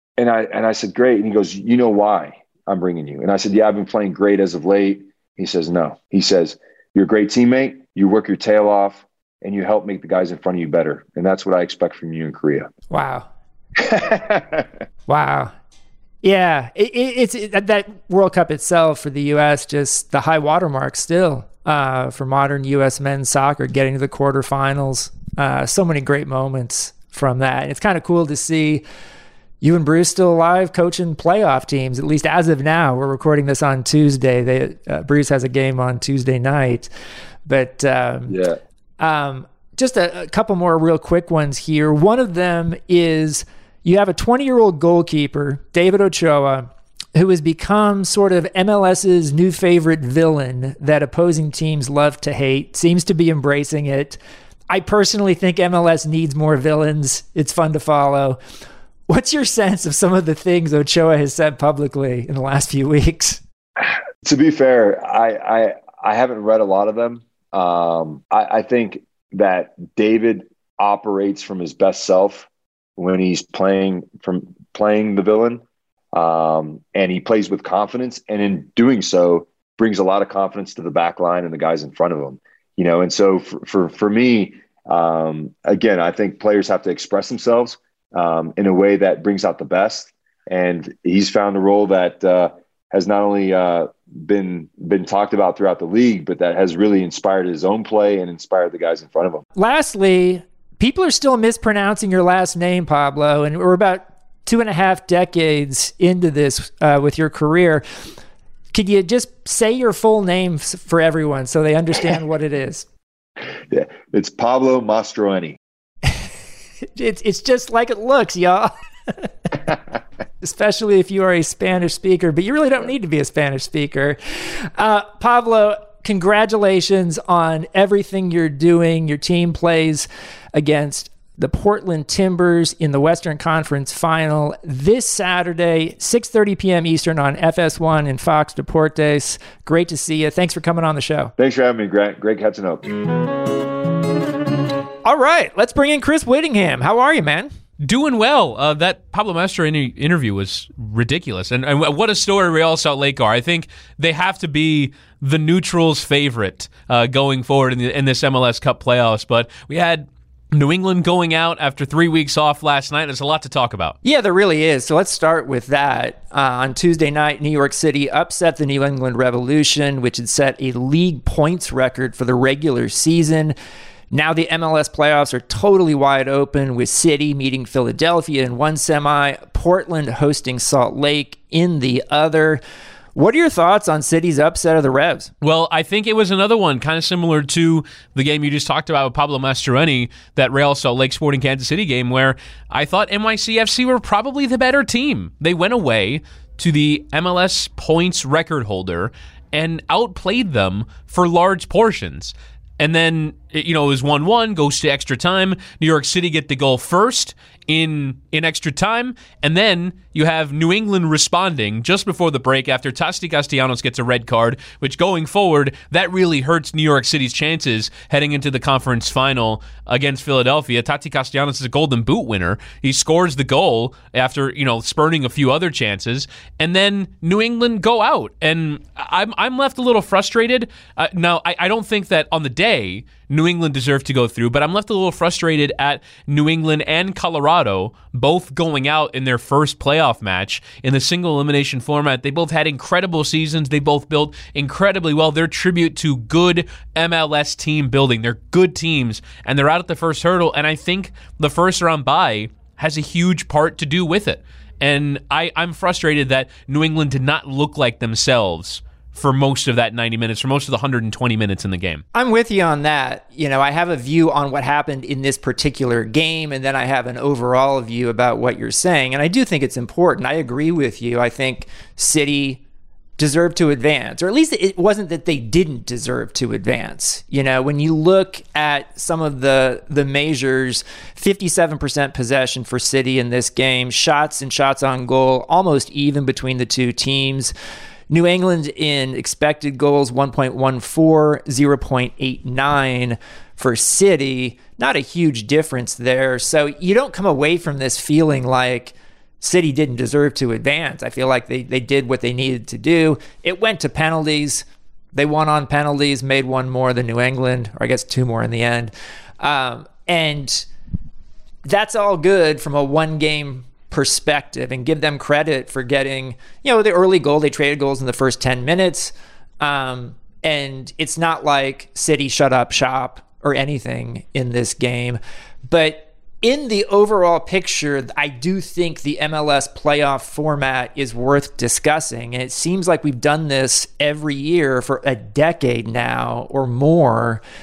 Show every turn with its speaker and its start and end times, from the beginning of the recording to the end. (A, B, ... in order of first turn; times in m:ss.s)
0:00.2-0:12.7 A
0:12.9-0:13.3 B
0:13.8-0:14.7 A
0:15.1-0:15.5 B
0:16.2-0:28.8 B
0:29.6-0:36.9 B
0:37.4-0:38.4 B
0:38.3-0:38.6 A
0:39.0-0:54.2 B
0:54.7-0:58.4 B
0:59.1-1:03.4 B
1:03.8-1:15.6 A
1:16.1-1:39.4 A
1:39.6-1:47.8 B
1:48.7-1:52.9 B
1:53.7-1:55.6 A
1:57.0-1:59.3 B
2:00.4-2:21.3 B
2:21.4-2:23.0 A
2:25.0-2:27.5 B
2:27.8-2:44.0 C
2:44.0-2:53.5 B
2:54.1-3:02.6 B
3:03.1-3:05.3 B
3:05.4-4:22.0 C
4:22.1-4:32.6 B
4:33.2-4:47.5 B
4:48.1-5:10.7 B
5:11.6-5:37.4 B